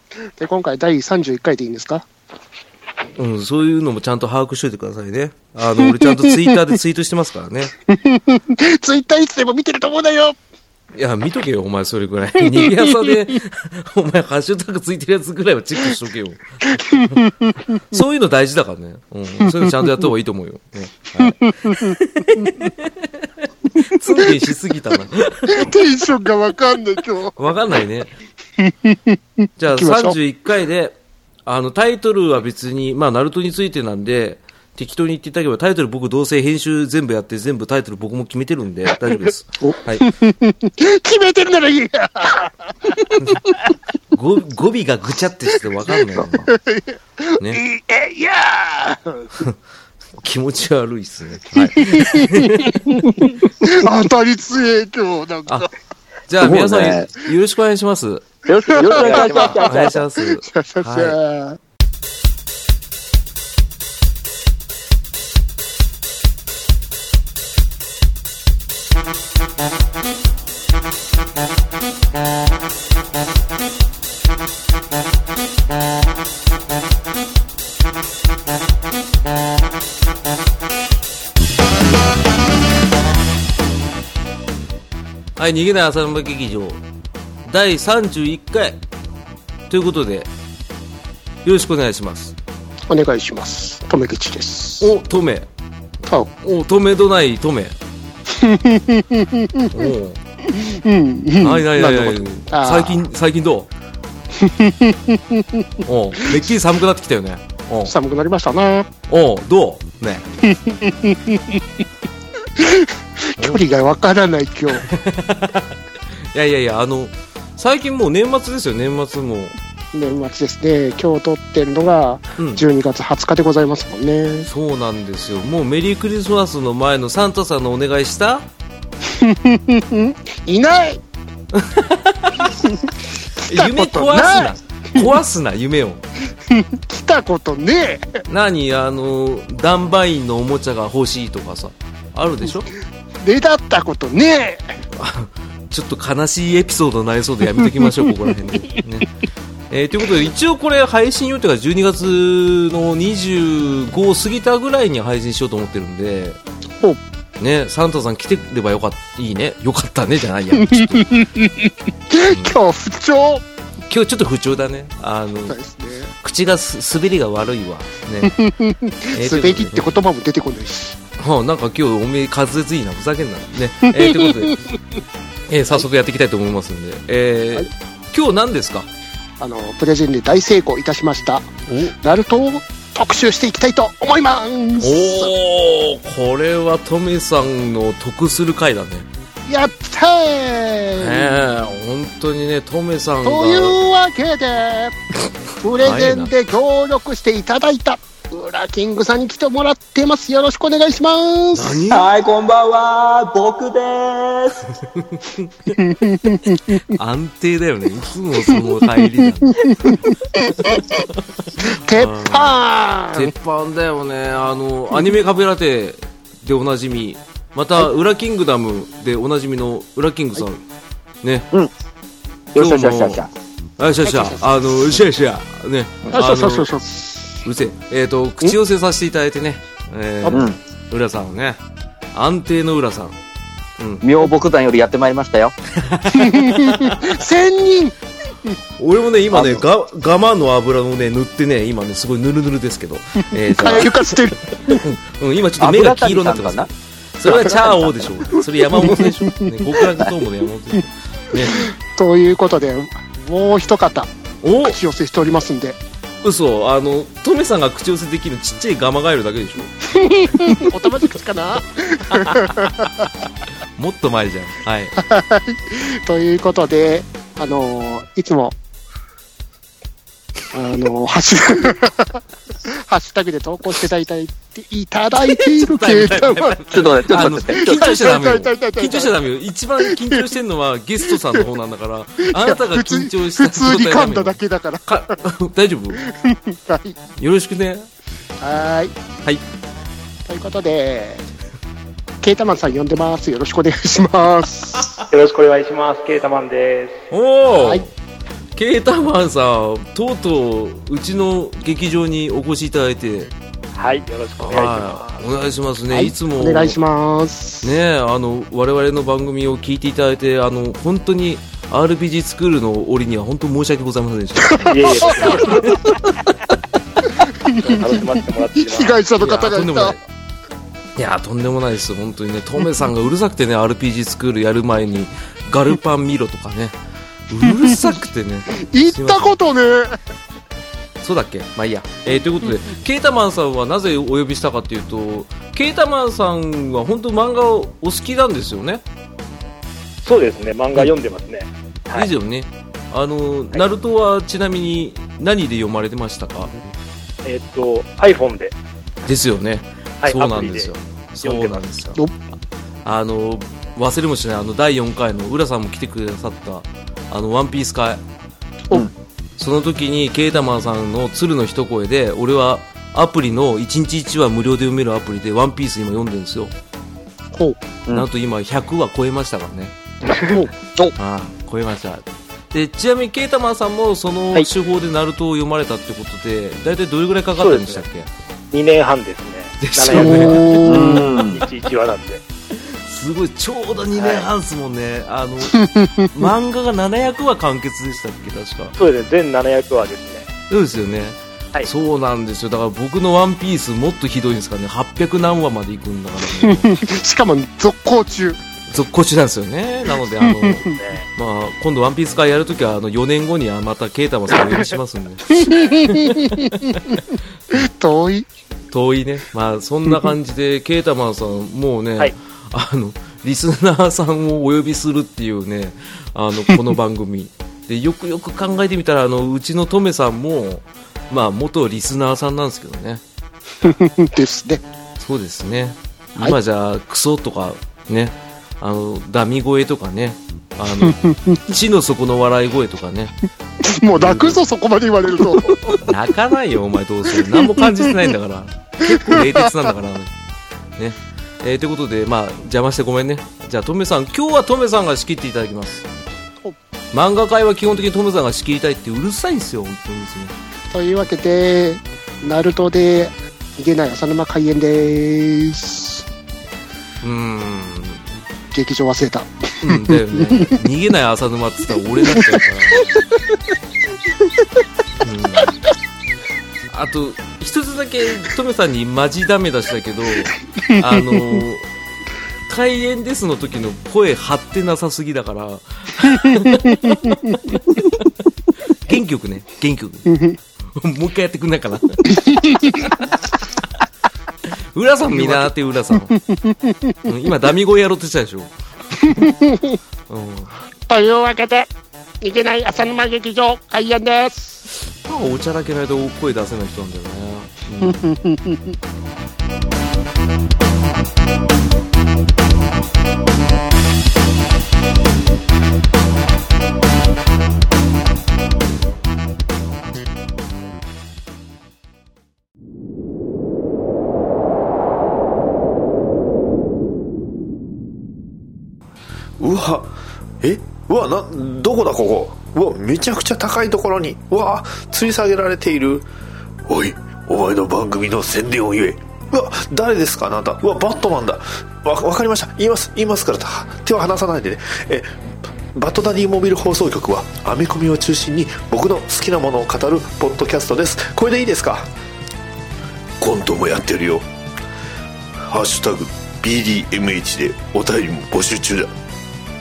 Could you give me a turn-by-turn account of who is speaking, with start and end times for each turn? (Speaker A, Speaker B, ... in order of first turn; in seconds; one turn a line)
Speaker A: 0.4-2.1
Speaker B: 3.2-7.7
Speaker A: 5.8-6.5
Speaker A: 7.9-10.3
Speaker B: 10.9-17.2
Speaker A: 12.5-13.1
Speaker A: 16.8-18.0
Speaker B: 17.9-25.8
Speaker A: 19.4-20.0
Speaker A: 21.2-22.7
Speaker A: 23.9-24.3
Speaker A: 25.5-27.4
Speaker B: 27.4-28.1
Speaker A: 28.6-30.2
Speaker B: 29.6-40.1
Speaker A: 39.6-43.4
Speaker B: 44.1-46.5
Speaker A: 46.1-49.3
Speaker B: 50.2-53.0
Speaker A: 51.6-55.7
Speaker B: 56.3-58.3
Speaker C: 56.4-57.1
Speaker C: 58.5-60.0
Speaker A: 58.7-61.6
Speaker B: 58.9-61.2
Speaker B: 85.4-86.8
Speaker B: 87.5-88.8
Speaker B: 89.7-90.3
Speaker B: 91.5-92.3
Speaker A: 92.9-94.9
Speaker B: 94.8-95.5
Speaker A: 96.1-96.3
Speaker B: 96.4-97.8
Speaker A: 98.3-99.9
Speaker B: 99.7-100.2
Speaker A: 100.5-103.1
Speaker B: 101.4-103.7
Speaker A: 104.4-105.7
Speaker B: 105.8-107.9
Speaker A: 107.9-108.9
Speaker B: 109.1-110.3
Speaker A: 110.4-111.6
Speaker A: 112.6-114.9
Speaker B: 114.8-115.7
Speaker B: 116.3-119.5
Speaker A: 119.9-124.5
Speaker B: 122.4-122.6
Speaker B: 124.5-128.5
Speaker A: 129.1-131.0
Speaker B: 131.5-132.5
Speaker A: 132.4-132.9
Speaker A: 133.4-135.1
Speaker B: 133.5-136.0
Speaker A: 136.5-138.2
Speaker B: 138.3-142.7
Speaker A: 143.2-144.7
Speaker B: 145.0-149.1
Speaker A: 147.6-148.1
Speaker B: 149.7-156.4
Speaker B: 157.4-161.1
Speaker A: 160.6-163.4
Speaker B: 162.3-162.5
Speaker B: 163.9-165.6
Speaker A: 165.5-166.1
Speaker B: 166.2-168.4
Speaker A: 168.2-171.0
Speaker B: 169.2-169.9
Speaker B: 171.2-174.6
Speaker A: 174.0-174.6
Speaker B: 175.5-178.9
Speaker A: 179.4-181.5
Speaker B: 181.7-181.9
Speaker A: 182.0-185.3
Speaker B: 184.8-189.1
Speaker A: 189.5-191.4
Speaker B: 191.0-193.8
Speaker A: 193.2-195.0
Speaker A: 195.6-201.8
Speaker B: 195.8-196.3
Speaker B: 201.5-202.1
Speaker C: 201.9-204.6
Speaker B: 205.2-205.7
Speaker A: 205.8-206.8
Speaker B: 206.9-210.0
Speaker A: 209.6-211.0
Speaker B: 210.6-212.6
Speaker A: 211.6-213.3
Speaker B: 213.2-220.6
Speaker C: 222.5-223.3
Speaker B: 222.6-223.3
Speaker B: 223.8-226.7
Speaker A: 224.0-225.0
Speaker A: 226.1-227.2
Speaker B: 227.4-231.6
Speaker C: 230.3-230.6
Speaker B: 232.1-233.2
Speaker B: 233.8-234.1
Speaker C: 234.0-235.6
Speaker B: 235.8-237.1
Speaker A: 236.1-237.9
Speaker B: 238.8-251.7
Speaker C: 239.3-239.7
Speaker A: 243.5-244.8
Speaker C: 245.6-246.7
Speaker C: 247.3-247.9
Speaker A: 248.7-249.5
Speaker A: 251.4-254.1
Speaker B: 254.4-254.8
Speaker A: 254.6-255.8
Speaker B: 256.2-260.7
Speaker A: 259.9-263.1
Speaker B: 262.1-262.9
Speaker B: 263.8-264.9
Speaker A: 265.0-268.6
Speaker A: 270.5-276.6
Speaker B: 275.3-286.0
Speaker C: 276.7-277.8
Speaker A: 277.5-279.1
Speaker A: 279.9-280.2
Speaker A: 281.1-281.4
Speaker A: 282.3-285.1
Speaker A: 286.0-287.0
Speaker B: 287.2-287.9
Speaker A: 288.4-288.9
Speaker A: 290.3-291.2
Speaker A: 292.2-294.9
Speaker D: 295.1-297.1
Speaker B: 297.1-297.9
Speaker A: 297.5-297.8
Speaker B: 298.6-303.3
Speaker D: 303.8-305.2
Speaker B: 304.4-306.8
Speaker A: 305.9-307.8
Speaker B: 307.6-315.8
Speaker A: 314.5-315.5
Speaker D: 314.6-315.8
Speaker A: 317.4-317.8
Speaker D: 317.5-319.0
Speaker A: 318.5-320.0
Speaker B: 319.2-320.0
Speaker B: 321.0-326.8
Speaker B: 327.3-329.4
Speaker A: 327.4-327.8
Speaker A: 328.6-330.0
Speaker B: 331.0-338.8
Speaker D: 340.0-342.1
Speaker B: 341.9-346.6
Speaker D: 347.2-348.6
Speaker B: 349.1-352.0
Speaker D: 350.0-350.7
Speaker D: 351.2-351.6
Speaker B: 352.9-358.0
Speaker B: 359.4-366.5
Speaker A: 367.3-367.6
Speaker B: 367.9-369.7
Speaker D: 370.1-370.4
Speaker B: 371.0-378.1
Speaker D: 377.4-377.8
Speaker D: 378.5-382.2
Speaker B: 379.6-381.0
Speaker A: 379.9-381.1
Speaker C: 380.7-381.4
Speaker B: 382.5-388.8
Speaker D: 383.9-384.3
Speaker A: 385.5-386.1
Speaker D: 388.8-390.3
Speaker B: 390.5-396.7
Speaker A: 396.4-398.4
Speaker B: 398.7-406.8
Speaker A: 400.2-400.6
Speaker D: 400.7-401.0
Speaker A: 405.3-407.0
Speaker A: 407.5-408.3
Speaker B: 408.7-423.0
Speaker A: 423.6-424.6
Speaker B: 425.0-433.2
Speaker A: 430.8-431.4
Speaker A: 433.7-435.8
Speaker B: 433.9-434.4
Speaker B: 435.8-440.1
Speaker A: 437.2-437.8
Speaker A: 438.9-439.7
Speaker B: 440.8-445.9
Speaker B: 446.9-450.4
Speaker A: 450.7-456.0
Speaker B: 457.0-458.1
Speaker A: 458.5-460.6
Speaker B: 459.6-462.9
Speaker A: 462.1-462.4
Speaker B: 465.0-465.5
Speaker B: 466.7-471.6
Speaker A: 470.7-471.4
Speaker B: 472.5-478.1
Speaker A: 476.8-477.1
Speaker B: 478.9-480.1
Speaker A: 480.1-480.4
Speaker B: 480.8-482.8
Speaker A: 482.1-482.9
Speaker B: 484.7-486.2
Speaker A: 485.1-487.1
Speaker B: 487.1-489.4
Speaker A: 489.0-489.8
Speaker B: 490.1-490.6
Speaker A: 490.9-494.6
Speaker B: 495.1-498.1
Speaker A: 497.8-498.8
Speaker E: 519.4-526.1
Speaker E: 526.7-535.2
Speaker E: 535.7-541.9
Speaker E: 543.2-544.3
Speaker E: 545.4-548.9